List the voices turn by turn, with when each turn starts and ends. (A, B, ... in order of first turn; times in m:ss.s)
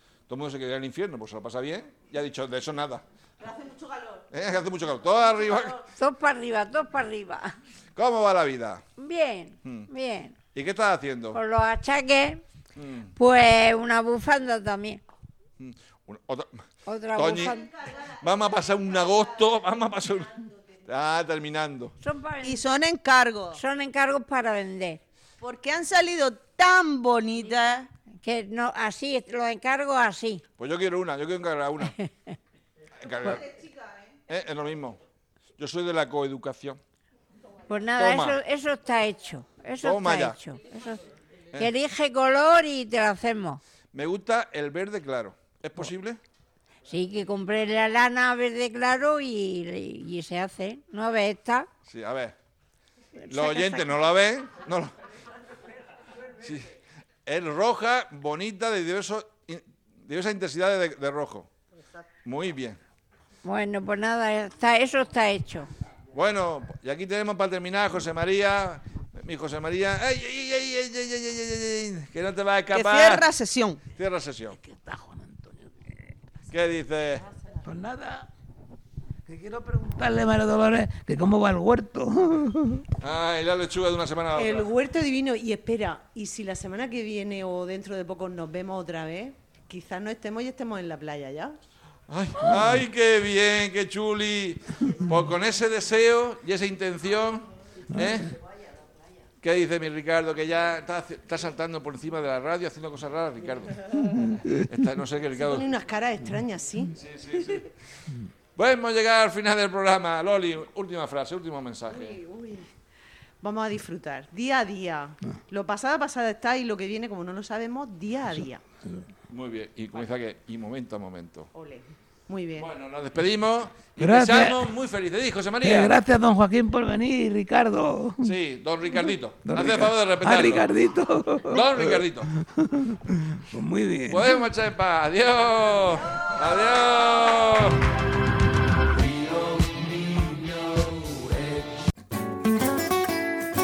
0:00.3-0:03.0 A
0:04.3-0:05.8 A
0:05.9-0:07.5 B
0:07.9-0:08.8 A
0:09.0-0:10.3 B
0:09.6-0:09.9 A
0:10.5-0:11.4 A
0:11.3-0:12.4 B
0:12.8-0:13.1 A
0:13.2-0:15.0 B
0:15.6-0:16.5 A
0:16.8-0:17.7 B
0:17.1-0:21.9 A
0:22.0-0:22.6 B
0:22.4-0:23.6 C
0:23.5-0:25.0 B
0:25.4-0:27.9 C
0:28.2-0:30.4 B
0:30.6-0:32.0 A
0:33.0-0:33.4 A
0:34.3-0:35.0 A
0:35.6-0:36.8 A
0:37.7-0:41.0 B
0:38.0-0:38.4 A
0:39.8-0:40.4 A
0:41.6-0:43.6 B
0:43.9-0:46.2 A
0:46.9-0:51.7 B
0:51.9-0:52.3 A
0:53.3-0:53.8 B
0:53.3-0:54.9 A
0:56.4-0:56.7 A
0:57.2-1:01.5 A
1:02.2-1:02.8 A
1:03.4-1:05.7 B
1:06.1-1:13.3 A
1:12.7-1:13.8 C
1:13.9-1:14.6 A
1:14.6-1:15.6 D
1:16.5-1:17.3 A
1:17.6-1:18.2 D
1:19.3-1:22.8 D
1:23.0-1:24.8 A
1:24.3-1:31.6 E
1:32.1-1:38.3 A
1:39.4-1:43.9 A
1:44.5-1:45.7 A
1:45.4-1:46.9 E
1:47.0-1:47.6 A
1:48.6-1:52.2 A
1:51.9-1:52.7 E
1:53.4-1:58.6 E
1:59.3-2:01.5 A
2:01.5-2:02.7 E
2:02.5-2:06.0 A
2:04.0-2:04.6 D
2:05.6-2:08.3 D
2:08.2-2:10.8 A
2:09.4-2:12.1 D
2:11.4-2:12.3 A
2:13.5-2:14.3 D
2:14.0-2:17.8 A